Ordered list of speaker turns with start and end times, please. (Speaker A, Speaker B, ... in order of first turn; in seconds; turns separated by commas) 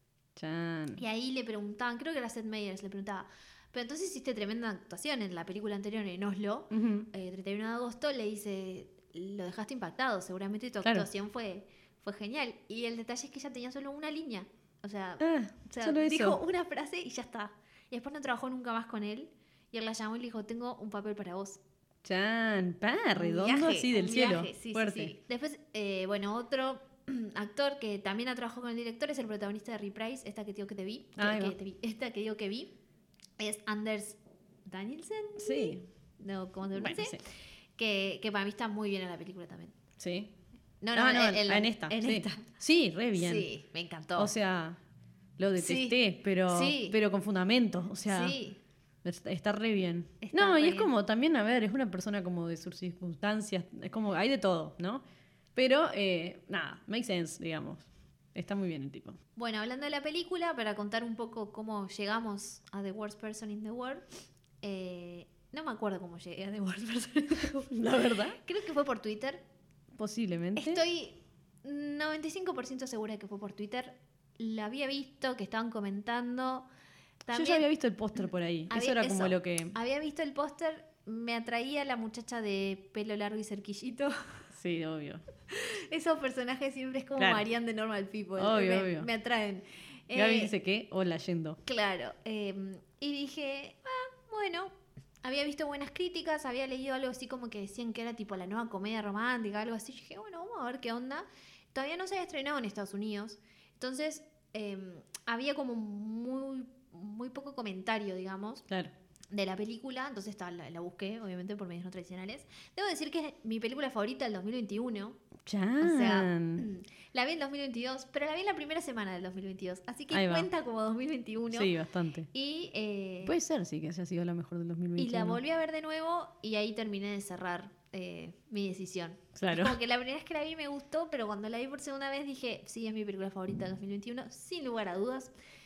Speaker A: 0.4-1.0, Speaker B: 1.0-21.6, Speaker A: 6.7-7.1, Speaker A: 15.2-16.4, Speaker A: 22.0-25.1, Speaker B: 23.1-32.7, Speaker A: 31.2-31.6, Speaker B: 33.4-37.2, Speaker A: 35.4-35.9, Speaker A: 36.7-37.2, Speaker B: 37.8-39.8, Speaker A: 40.0-40.3, Speaker B: 40.8-42.4, Speaker A: 41.0-43.5, Speaker B: 43.2-44.3, Speaker A: 44.2-44.8, Speaker A: 45.4-48.4, Speaker B: 45.6-47.0, Speaker B: 48.1-48.6, Speaker A: 49.0-55.0, Speaker B: 50.2-50.9, Speaker A: 55.6-59.2, Speaker B: 59.4-64.0, Speaker B: 64.6-69.4, Speaker A: 67.6-68.4, Speaker A: 70.0-70.8, Speaker B: 70.6-76.7, Speaker B: 77.3-77.7, Speaker A: 77.3-79.8, Speaker B: 78.7-84.1, Speaker A: 84.5-85.2, Speaker B: 85.5-90.5, Speaker A: 87.2-87.4, Speaker A: 88.4-89.1, Speaker A: 90.1-91.6, Speaker B: 91.7-108.7, Speaker B: 109.3-115.2, Speaker A: 115.5-116.7, Speaker B: 115.8-121.7, Speaker A: 120.1-120.5, Speaker A: 121.5-122.3, Speaker B: 122.3-123.4, Speaker A: 123.2-125.4, Speaker B: 125.0-135.3, Speaker A: 129.4-129.8